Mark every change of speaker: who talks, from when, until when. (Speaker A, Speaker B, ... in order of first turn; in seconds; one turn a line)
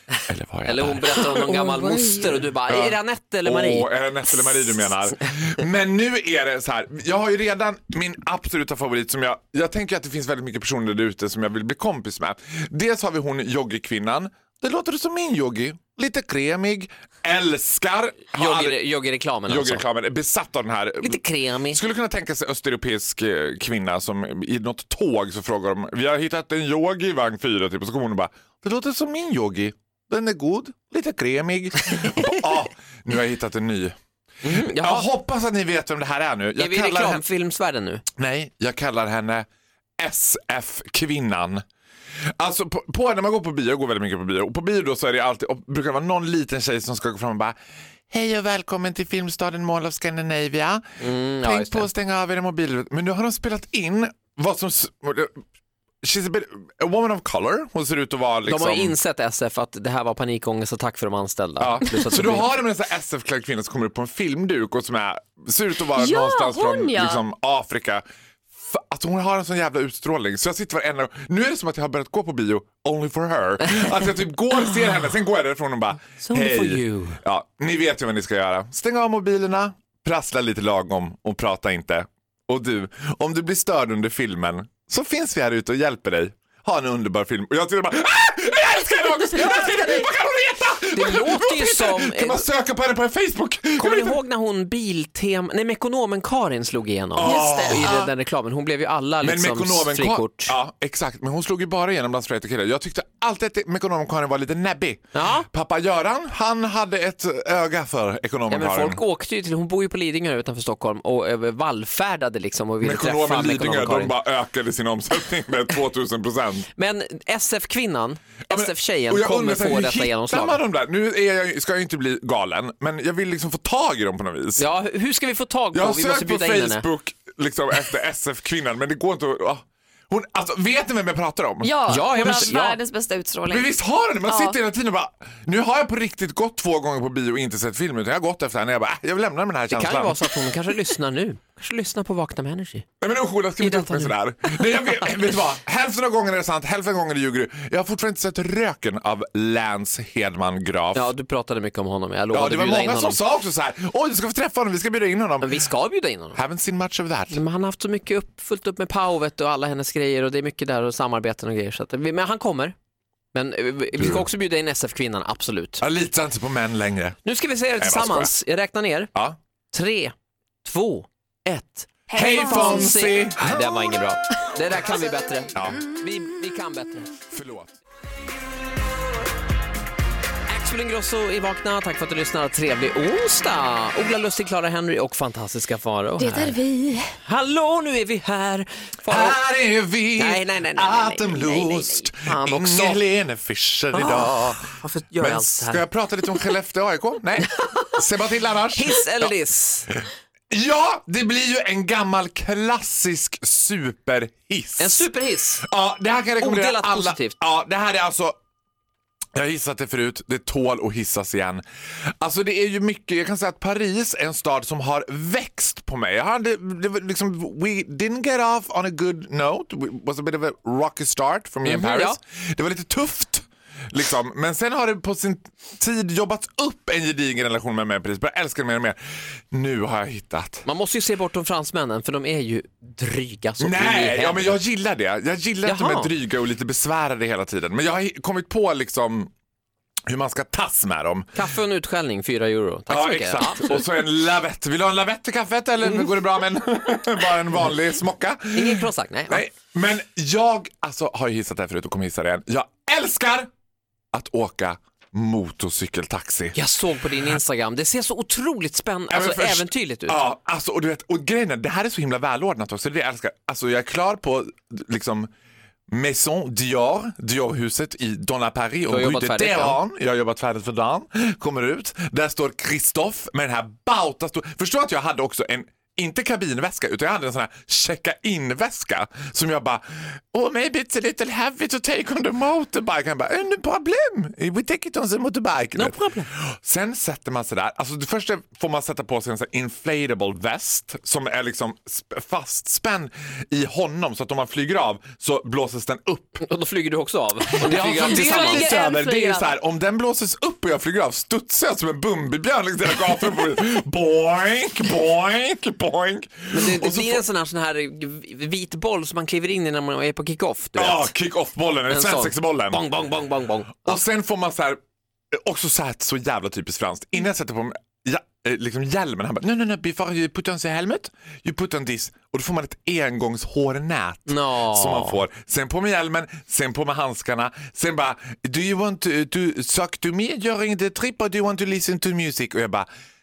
Speaker A: 0.2-1.4
Speaker B: 0.7-4.7
Speaker C: 1.6-2.0
Speaker A: 2.7-18.8
Speaker B: 18.3-19.8
Speaker A: 19.5-37.2
Speaker B: 21.0-21.8
Speaker B: 34.4-35.1
Speaker B: 36.6-38.0
Speaker A: 38.2-39.5
Speaker A: 40.0-41.6
Speaker A: 42.4-47.5
Speaker A: 48.1-55.4
Speaker B: 51.0-51.9
Speaker A: 56.0-59.0
Speaker B: 58.5-62.5
Speaker A: 61.6-68.0
Speaker C: 66.0-67.2
Speaker A: 68.6-94.2
Speaker B: 76.2-77.2
Speaker B: 90.9-92.5
Speaker B: 93.8-100.6
Speaker A: 97.2-98.1
Speaker C: 97.2-98.0
Speaker A: 99.2-109.0
Speaker B: 105.1-105.5
Speaker B: 108.5-114.2
Speaker A: 112.8-116.7
Speaker B: 116.8-120.6
Speaker A: 118.5-124.7
Speaker B: 124.6-126.9
Speaker A: 125.7-132.6
Speaker C: 131.6-133.7
Speaker B: 131.9-132.8
Speaker A: 133.5-140.5
Speaker C: 134.3-134.6
Speaker B: 139.7-142.9
Speaker A: 143.0-151.1
Speaker B: 143.6-144.9
Speaker B: 150.9-153.2
Speaker A: 152.3-155.6
Speaker B: 155.4-156.4
Speaker A: 156.3-157.4
Speaker B: 157.3-162.8
Speaker B: 163.3-165.8
Speaker A: 164.0-164.3
Speaker A: 165.8-167.2
Speaker B: 167.2-169.1
Speaker A: 167.8-168.3
Speaker B: 169.7-177.1
Speaker C: 172.1-173.0
Speaker A: 172.1-173.6
Speaker A: 175.5-175.8
Speaker A: 177.3-177.7
Speaker B: 180.5-186.6
Speaker C: 186.2-187.1
Speaker B: 187.2-189.4
Speaker A: 189.1-194.7
Speaker B: 190.2-193.0
Speaker B: 193.9-195.8
Speaker A: 195.2-199.3
Speaker B: 198.7-199.9
Speaker A: 199.9-205.1
Speaker B: 204.8-205.7
Speaker A: 205.6-208.4
Speaker B: 206.4-207.3
Speaker A: 209.4-211.6
Speaker A: 212.2-229.0
Speaker B: 221.7-222.2
Speaker A: 229.5-230.6
Speaker B: 230.7-234.6
Speaker A: 233.6-239.3
Speaker B: 235.6-236.1
Speaker A: 240.1-241.4
Speaker B: 241.3-243.8
Speaker A: 242.9-253.5
Speaker B: 248.5-249.4
Speaker A: 254.1-256.6
Speaker B: 256.6-260.2
Speaker A: 259.1-265.3
Speaker A: 265.9-296.4
Speaker B: 268.9-269.8
Speaker B: 285.8-286.3
Speaker B: 296.4-298.8
Speaker A: 297.6-307.2
Speaker C: 298.0-299.5
Speaker B: 306.5-311.1
Speaker A: 310.8-312.9
Speaker B: 311.9-314.0
Speaker A: 313.8-314.8
Speaker A: 315.3-332.9
Speaker B: 324.3-325.2